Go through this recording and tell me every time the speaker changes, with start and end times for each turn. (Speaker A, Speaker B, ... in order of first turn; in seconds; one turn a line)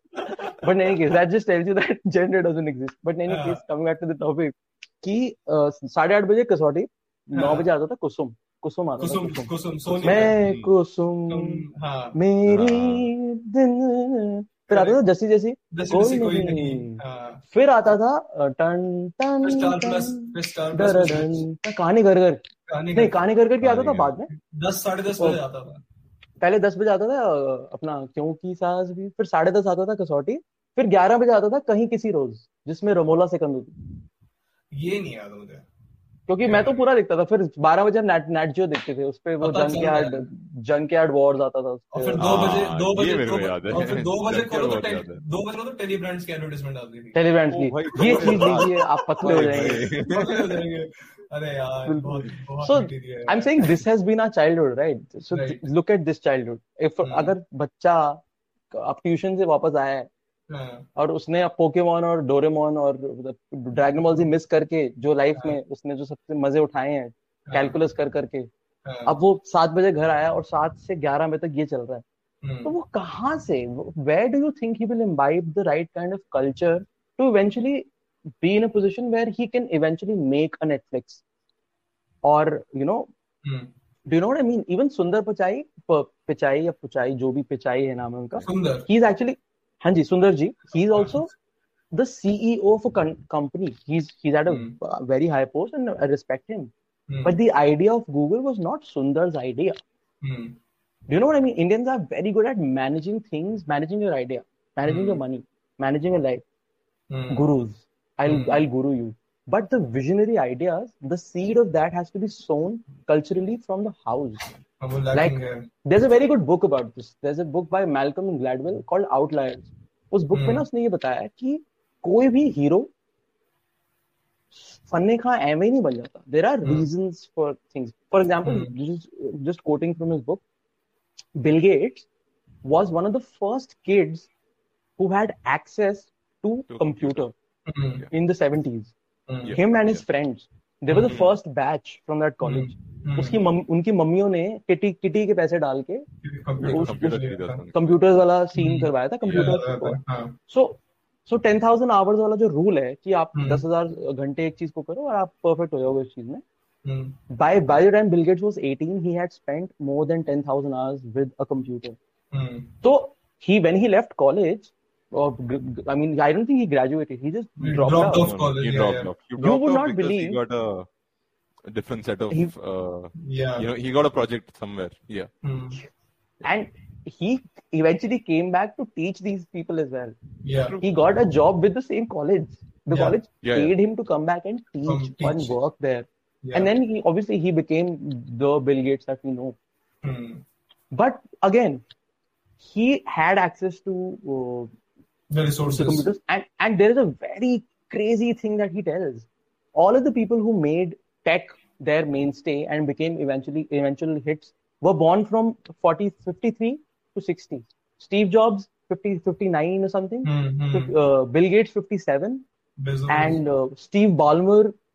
Speaker A: 0.2-0.9
Speaker B: 0.3-24.3
Speaker A: 3.3-3.6
Speaker A: 7.3-7.7
Speaker A: 9.0-10.4
Speaker C: 10.2-10.7
Speaker A: 11.3-12.2
Speaker C: 12.5-13.1
Speaker A: 14.7-15.0
Speaker A: 15.7-17.4
Speaker A: 19.4-21.4
Speaker A: 22.7-23.2
Speaker C: 23.6-24.1
Speaker A: 24.3-25.8
Speaker B: 26.4-33.7
Speaker A: 34.7-35.7
Speaker B: 36.3-42.3
Speaker A: 36.4-36.8
Speaker A: 39.4-40.2
Speaker A: 41.9-47.2
Speaker C: 42.2-45.2
Speaker B: 47.1-50.3
Speaker C: 47.5-50.6
Speaker A: 47.9-53.5
Speaker B: 51.9-60.1
Speaker A: 55.3-55.6
Speaker A: 57.0-57.3
Speaker A: 60.5-60.9
Speaker B: 61.0-68.5
Speaker A: 67.5-67.8
Speaker A: 68.8-69.1
Speaker B: 69.0-72.0
Speaker A: 72.4-72.7
Speaker B: 72.6-77.9
Speaker B: 78.4-81.2
Speaker B: 82.2-83.1
Speaker A: 83.4-83.7
Speaker B: 84.1-91.3
Speaker A: 88.5-88.9
Speaker A: 90.9-91.2
Speaker B: 91.9-96.7
Speaker A: 94.5-94.8
Speaker A: 97.1-97.4
Speaker B: 97.2-99.8
Speaker A: 100.2-100.6
Speaker B: 101.1-106.4
Speaker A: 104.9-105.2
Speaker A: 107.1-107.5
Speaker B: 107.3-114.5
Speaker A: 108.3-108.6
Speaker A: 114.8-115.7
Speaker B: 115.1-122.9
Speaker A: 120.3-120.7
Speaker B: 124.5-130.4
Speaker A: 126.6-126.9
Speaker A: 128.4-128.7
Speaker B: 131.4-132.1
Speaker B: 132.6-134.3
Speaker B: 135.0-137.3
Speaker C: 136.7-137.2
Speaker A: 137.7-138.1
Speaker B: 138.1-138.9
Speaker A: 139.3-139.6
Speaker C: 139.4-140.0
Speaker B: 139.5-146.1
Speaker A: 140.9-141.2
Speaker C: 141.0-141.3
Speaker A: 142.4-143.4
Speaker A: 146.2-147.7
Speaker B: 146.6-147.1
Speaker C: 146.6-147.9
Speaker B: 147.7-156.4
Speaker A: 148.6-150.4
Speaker A: 153.3-153.6
Speaker A: 156.8-157.2
Speaker B: 157.3-162.0
Speaker A: 162.3-162.8
Speaker B: 162.8-168.3
Speaker A: 167.6-169.1
Speaker C: 168.1-170.9
Speaker B: 169.4-170.4
Speaker C: 171.7-175.3
Speaker A: 173.2-173.7
Speaker A: 175.4-175.8
Speaker B: 176.4-180.2
Speaker A: 180.4-180.8
Speaker C: 180.7-180.9
Speaker B: 180.8-189.6
Speaker A: 182.9-183.2
Speaker C: 183.4-183.7
Speaker A: 184.9-185.6
Speaker A: 186.4-186.7
Speaker A: 190.0-190.4
Speaker B: 190.9-191.8
Speaker B: 192.6-194.7
Speaker A: 195.3-196.1
Speaker B: 195.7-212.4
Speaker A: 210.2-210.9
Speaker A: 212.8-213.4
Speaker B: 213.1-214.8